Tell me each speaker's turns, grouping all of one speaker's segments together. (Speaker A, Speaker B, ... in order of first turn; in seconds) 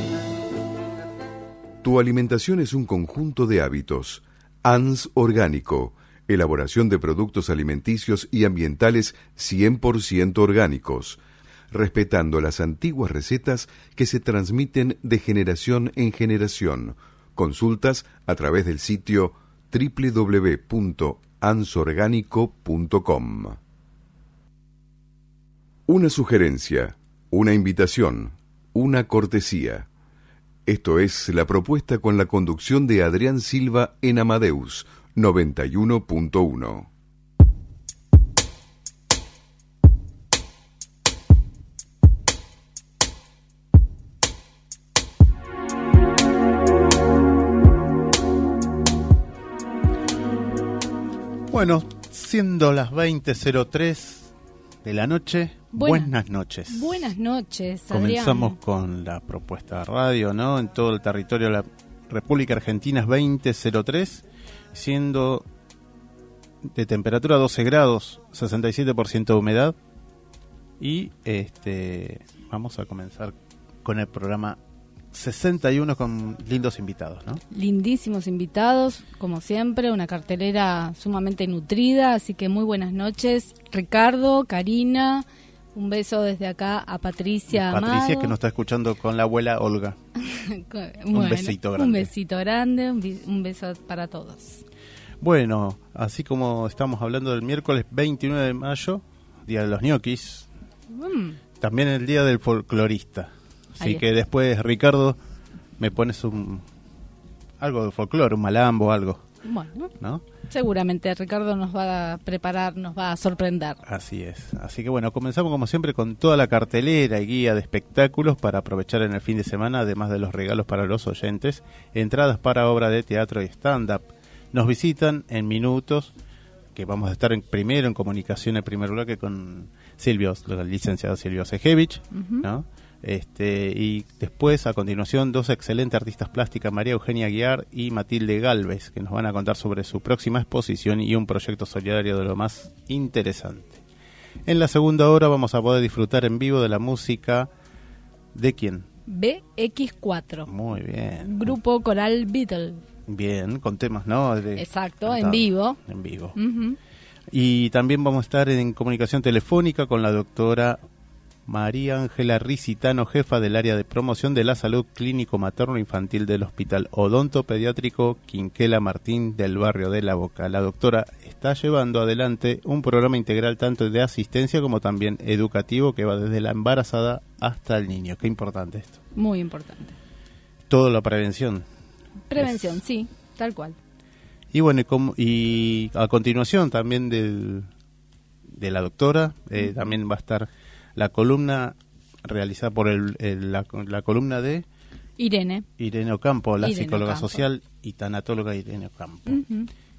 Speaker A: 1.8-11.2, 11.7-23.6, 25.9-29.9, 30.6-36.9
Speaker B: 51.5-54.3, 54.8-57.0, 57.9-65.4, 66.6-69.8, 70.8-74.6, 75.1-77.4, 87.5-90.0, 91.1-92.1, 95.2-100.5, 101.6-105.2, 105.8-106.6, 107.6-109.2, 113.8-126.1, 126.7-143.8, 144.4-147.5, 148.3-148.8, 150.4-151.5, 153.1-156.3, 157.3-160.8, 161.5-179.0, 180.7-181.6, 182.4-182.7, 184.5-187.7, 188.5-194.7, 195.8-199.4
Speaker C: 55.7-56.1, 56.7-58.6, 77.5-88.3, 90.2-94.6, 100.9-101.4, 109.4-109.9, 110.5-113.8, 132.1-132.5, 149.1-150.5, 151.2-152.8, 154.6-155.8, 156.3-156.8, 179.1-179.9, 182.3-183.8, 195.2-195.7, 196.6-197.4, 199.2-199.7